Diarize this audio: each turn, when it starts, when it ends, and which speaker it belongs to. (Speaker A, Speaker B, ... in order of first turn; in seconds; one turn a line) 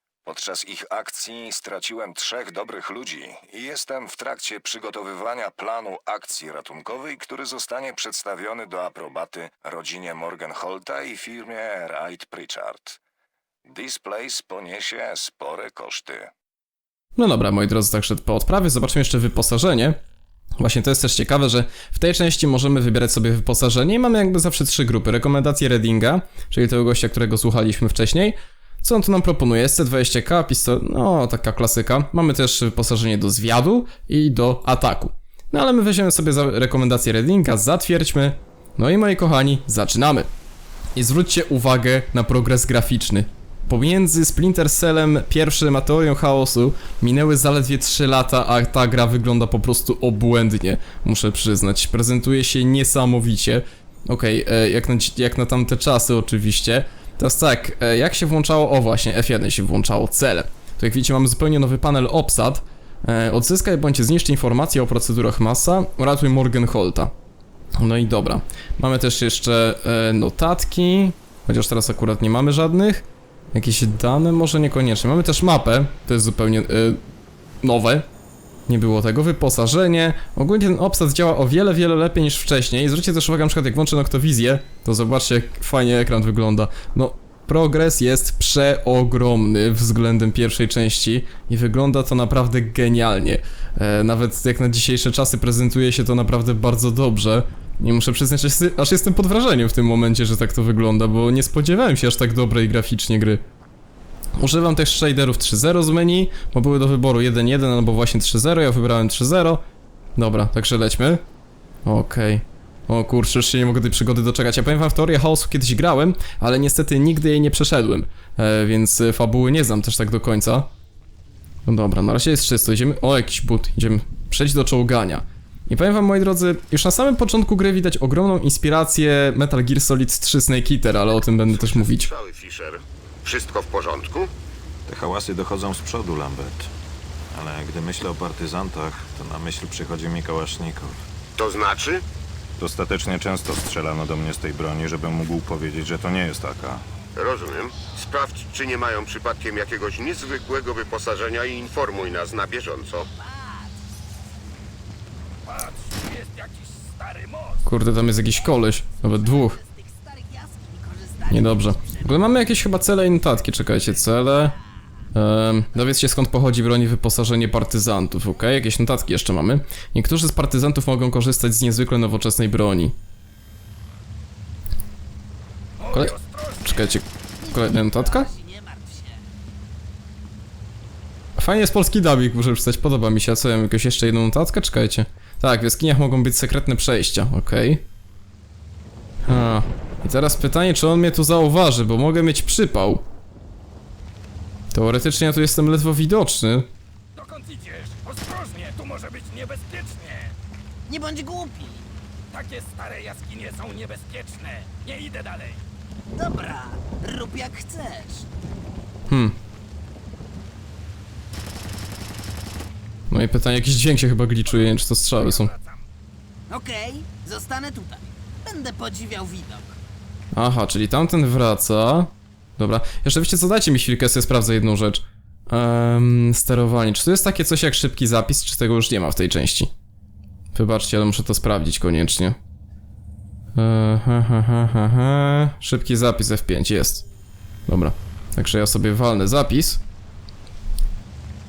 Speaker A: 0.2-13.0
Speaker A: 13.7-16.3
Speaker B: 17.2-20.0
Speaker B: 20.6-40.3
Speaker B: 41.0-67.1
Speaker B: 67.8-77.0
Speaker B: 77.6-78.0
Speaker B: 78.7-103.4
Speaker B: 104.4-109.6
Speaker B: 110.2-111.2
Speaker B: 111.8-120.7
Speaker B: 121.7-132.1
Speaker C: 131.4-134.3
Speaker D: 134.9-136.7
Speaker D: 137.3-141.1
Speaker C: 141.3-142.0
Speaker D: 142.6-146.8
Speaker C: 147.2-153.1
Speaker E: 153.2-153.5
Speaker F: 155.5-157.6
Speaker B: 157.6-159.6
Speaker E: 159.1-162.0
Speaker B: 161.3-164.5
Speaker B: 165.1-172.9
Speaker F: 175.8-176.9
Speaker B: 175.9-178.3
Speaker E: 177.4-179.1
Speaker B: 181.4-187.8
Speaker B: 189.3-193.0
Speaker B: 194.7-196.7
Speaker F: 197.1-200.3
Speaker E: 200.9-201.8
Speaker F: 202.3-205.6
Speaker E: 206.2-208.2
Speaker B: 209.1-209.3
Speaker B: 213.1-215.5
Speaker F: 214.5-215.8
Speaker E: 216.5-219.7
Speaker B: 220.3-229.7
Speaker B: 230.5-232.4
Speaker B: 233.6-237.0
Speaker B: 237.7-239.8